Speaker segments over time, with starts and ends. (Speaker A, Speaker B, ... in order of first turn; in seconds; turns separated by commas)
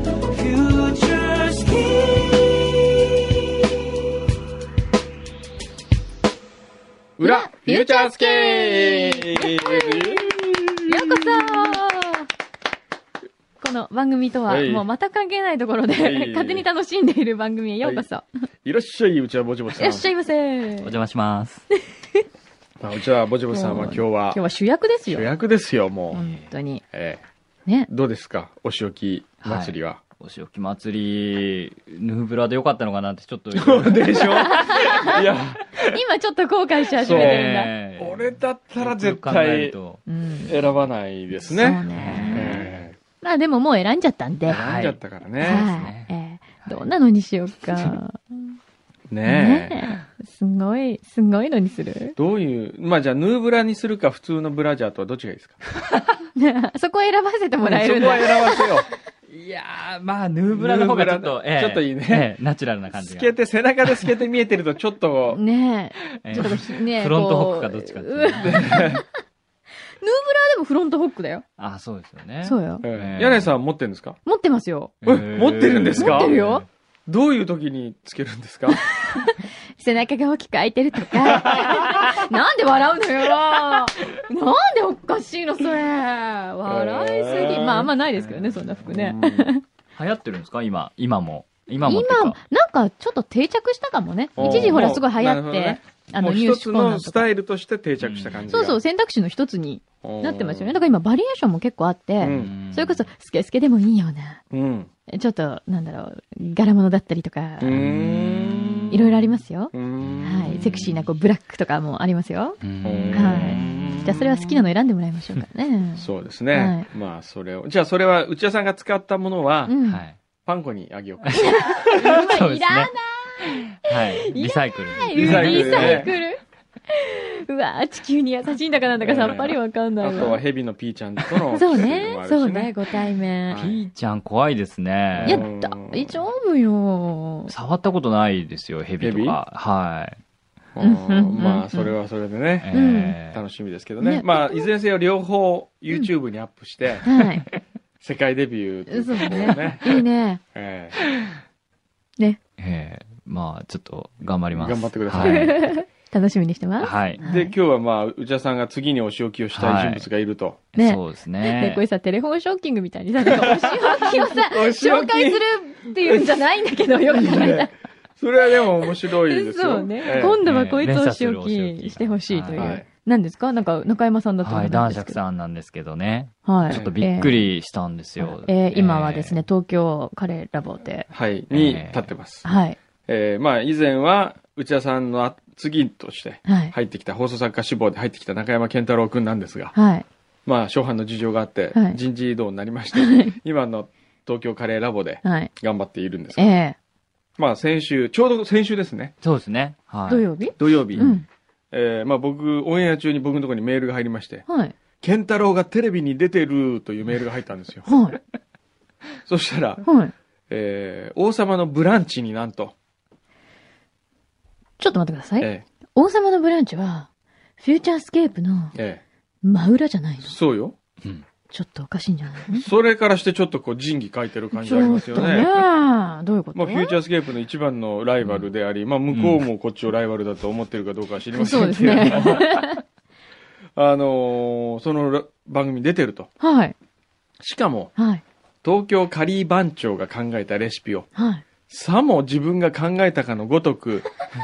Speaker A: 7.2-11.8, Speaker B: 7.2-10.3, Speaker B: 10.9-12.3, Speaker B: 13.6-18.2, Speaker A: 14.5-14.8, Speaker A: 15.9-16.6, Speaker A: 18.6-20.1, Speaker B: 19.7-20.9, Speaker C: 20.8-21.6, Speaker A: 22.8-24.4, Speaker B: 23.5-25.3, Speaker A: 25.1-26.2, Speaker B: 26.1-26.8, Speaker C: 26.1-26.5, Speaker A: 26.9-27.2, Speaker A: 27.9-30.0, Speaker C: 29.4-34.9, Speaker A: 33.5-35.8, Speaker B: 34.4-35.2, Speaker B: 35.8-37.7, Speaker A: 37.0-37.4, Speaker C: 37.0-40.0, Speaker A: 38.0-39.7, Speaker B: 40.1-40.6, Speaker A: 40.5-43.0, Speaker B: 41.5-42.7, Speaker C: 41.9-42.7, Speaker B: 43.2-44.6, Speaker C: 44.5-46.1, Speaker A: 44.5-45.9, Speaker B: 45.4-48.5, Speaker C: 46.6-46.9, Speaker A: 49.1-49.8, Speaker B: 49.2-52.1, Speaker A: 52.2-55.6, Speaker B: 56.4-58.7, Speaker A: 57.6-58.9, Speaker C: 59.3-63.4, Speaker A: 60.5-62.3, Speaker A: 62.9-65.4, Speaker B: 65.3-69.0, Speaker C: 66.2-69.0, Speaker A: 68.4-69.0, Speaker B: 70.0-71.4, Speaker C: 71.6-73.5, Speaker B: 72.4-72.8, Speaker A: 72.8-74.2, Speaker B: 74.2-74.9, Speaker C: 75.0-76.6, Speaker A: 75.0-76.4, Speaker B: 75.9-76.6, Speaker A: 77.1-78.8, Speaker B: 78.7-89.6, Speaker A: 86.7-87.9, Speaker C: 88.2-88.6, Speaker A: 88.8-89.5, Speaker C: 90.0-92.4, Speaker B: 91.8-97.3, Speaker C: 94.4-95.0, Speaker A: 94.4-98.8, Speaker C: 98.0-98.5, Speaker B: 98.5-104.4, Speaker A: 100.0-100.7, Speaker A: 102.2-102.5, Speaker C: 102.3-103.0, Speaker A: 104.5-104.9, Speaker B: 105.1-107.8, Speaker A: 107.6-109.1, Speaker C: 107.7-109.3, Speaker B: 108.9-112.6, Speaker A: 109.7-110.7, Speaker C: 110.0-111.0, Speaker C: 112.6-114.2, Speaker A: 112.8-114.4, Speaker B: 113.1-116.9, Speaker A: 116.0-119.7, Speaker B: 119.7-120.0, Speaker C: 119.8-120.2, Speaker A: 120.4-121.8, Speaker C: 121.2-122.9, Speaker B: 121.3-130.4, Speaker C: 123.8-126.1, Speaker A: 125.1-126.1, Speaker A: 129.0-132.7, Speaker B: 131.5-133.6, Speaker A: 133.5-133.8, Speaker C: 133.6-135.4, Speaker A: 135.1-136.2, Speaker B: 135.2-137.5, Speaker C: 137.5-140.2, Speaker A: 139.0-139.4, Speaker A: 140.8-147.1, Speaker B: 140.8-141.9, Speaker C: 142.6-143.4, Speaker B: 142.7-143.2, Speaker B: 144.0-144.7, Speaker B: 147.0-147.4, Speaker A: 148.0-150.0, Speaker B: 148.9-150.4, Speaker A: 150.5-151.0, Speaker C: 152.6-155.6, Speaker A: 154.6-155.6, Speaker B: 155.2-157.5, Speaker C: 156.8-157.2, Speaker A: 157.2-160.7, Speaker C: 159.5-160.1, Speaker C: 160.7-161.8, Speaker B: 160.7-167.7, Speaker A: 163.4-165.4, Speaker A: 166.0-166.4, Speaker A: 167.1-170.4, Speaker B: 168.8-175.2, Speaker C: 170.1-172.8, Speaker A: 172.5-172.8, Speaker C: 174.4-179.4, Speaker B: 176.4-177.4, Speaker A: 176.7-177.0, Speaker B: 178.2-181.1, Speaker A: 181.1-189.7, Speaker C: 181.5-182.1, Speaker B: 182.4-182.8, Speaker B: 186.4-186.7, Speaker B: 189.7-190.1, Speaker A: 190.4-196.6, Speaker B: 191.7-192.0, Speaker B: 192.9-193.3, Speaker B: 195.2-195.5, Speaker B: 196.3-196.8, Speaker A: 197.4-199.1, Speaker C: 199.2-200.3, Speaker B: 200.1-201.2, Speaker A: 200.6-201.1, Speaker A: 201.7-204.4, Speaker B: 204.5-204.7, Speaker A: 205.0-207.8, Speaker B: 207.8-208.2, Speaker A: 209.2-209.8, Speaker B: 209.8-210.1, Speaker A: 210.5-212.7, Speaker B: 214.8-217.1, Speaker A: 215.4-215.6, Speaker B: 217.6-218.7, Speaker A: 218.7-219.0, Speaker B: 219.4-220.3, Speaker A: 220.2-220.8, Speaker B: 221.5-222.7, Speaker A: 222.5-225.6, Speaker B: 224.6-227.0, Speaker A: 226.5-232.5, Speaker C: 228.2-228.5, Speaker C: 229.1-229.4, Speaker B: 231.3-232.8, Speaker C: 231.8-232.3, Speaker A: 233.8-236.3, Speaker B: 236.4-236.7, Speaker A: 237.4-237.9, Speaker B: 237.9-238.2, Speaker A: 238.6-241.1, Speaker B: 241.1-241.4, Speaker A: 241.7-244.1